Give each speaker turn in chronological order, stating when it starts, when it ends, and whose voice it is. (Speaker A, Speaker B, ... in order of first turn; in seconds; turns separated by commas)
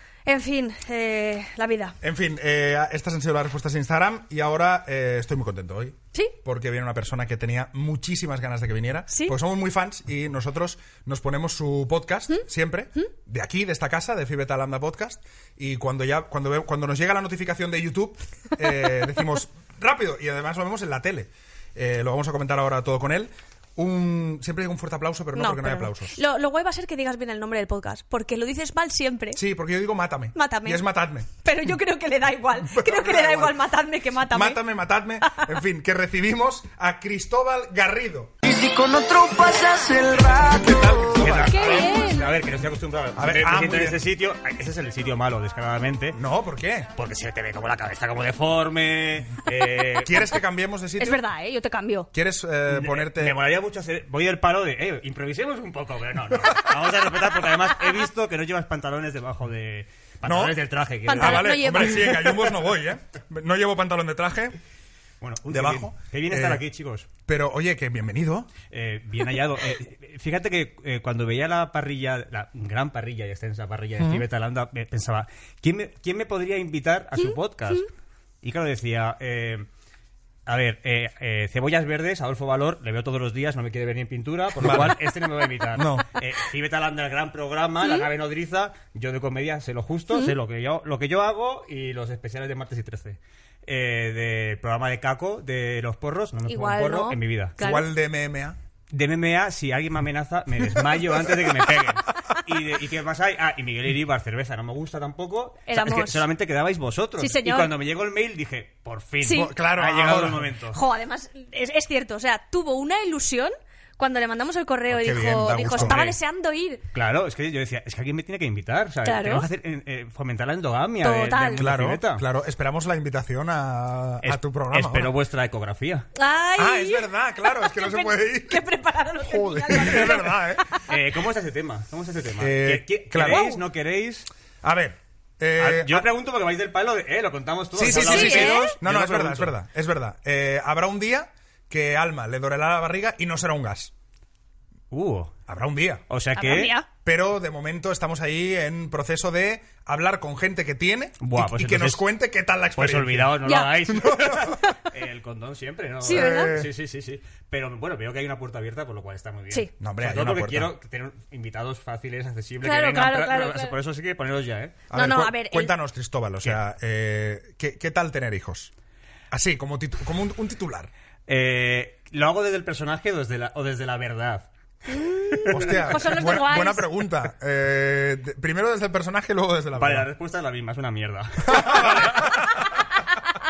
Speaker A: 0.3-2.0, Speaker B: 2.0-26.2, Speaker A: 25.4-29.4, Speaker B: 29.4-31.3, Speaker A: 30.4-34.6, Speaker B: 32.7-33.6, Speaker B: 34.3-38.4, Speaker A: 35.2-35.5, Speaker C: 38.4-41.0, Speaker B: 40.5-41.8, Speaker D: 41.2-46.2, Speaker A: 41.3-42.3, Speaker B: 43.2-44.0, Speaker B: 46.1-46.9, Speaker D: 47.0-50.3, Speaker B: 50.0-51.2, Speaker A: 51.0-52.1, Speaker B: 52.1-53.4, Speaker D: 52.7-61.9, Speaker B: 60.2-60.6, Speaker A: 61.1-62.6, Speaker B: 61.1-64.6, Speaker D: 65.2-67.1, Speaker B: 65.5-66.6, Speaker B: 67.3-68.5, Speaker D: 68.7-77.9, Speaker B: 74.0-74.2, Speaker D: 78.4-79.7, Speaker D: 80.5-97.6, Speaker B: 84.6-85.0, Speaker B: 85.7-86.1, Speaker A: 87.8-88.1, Speaker A: 96.5-97.9, Speaker B: 97.6-98.6, Speaker D: 98.9-110.8, Speaker B: 100.8-102.4, Speaker A: 105.7-106.2, Speaker A: 107.2-107.7, Speaker A: 109.2-109.5, Speaker B: 109.3-110.5, Speaker A: 110.7-116.8, Speaker B: 114.9-116.0, Speaker D: 115.8-116.2, Speaker D: 116.9-122.2, Speaker A: 119.0-119.5, Speaker A: 121.0-121.6, Speaker B: 121.6-125.1, Speaker D: 124.2-126.1, Speaker A: 126.2-131.0, Speaker B: 126.6-128.6, Speaker B: 129.2-130.8, Speaker D: 129.8-130.2, Speaker D: 130.8-134.3, Speaker B: 132.4-133.6, Speaker B: 134.6-136.1, Speaker D: 135.6-139.6, Speaker B: 137.8-143.9, Speaker A: 137.8-138.8, Speaker D: 144.9-145.4, Speaker B: 145.5-146.0, Speaker D: 146.1-146.8, Speaker A: 146.4-146.9, Speaker B: 147.0-154.7, Speaker D: 151.2-152.0, Speaker D: 152.8-164.8, Speaker A: 153.4-153.8, Speaker A: 156.0-156.6, Speaker B: 156.1-156.7, Speaker B: 159.8-160.7, Speaker A: 162.6-163.8, Speaker B: 164.9-168.7, Speaker A: 164.9-165.7, Speaker B: 169.3-170.9, Speaker D: 171.3-174.5, Speaker A: 174.9-176.9, Speaker D: 175.3-176.4, Speaker B: 175.5-180.1, Speaker D: 179.8-182.6, Speaker B: 181.5-182.7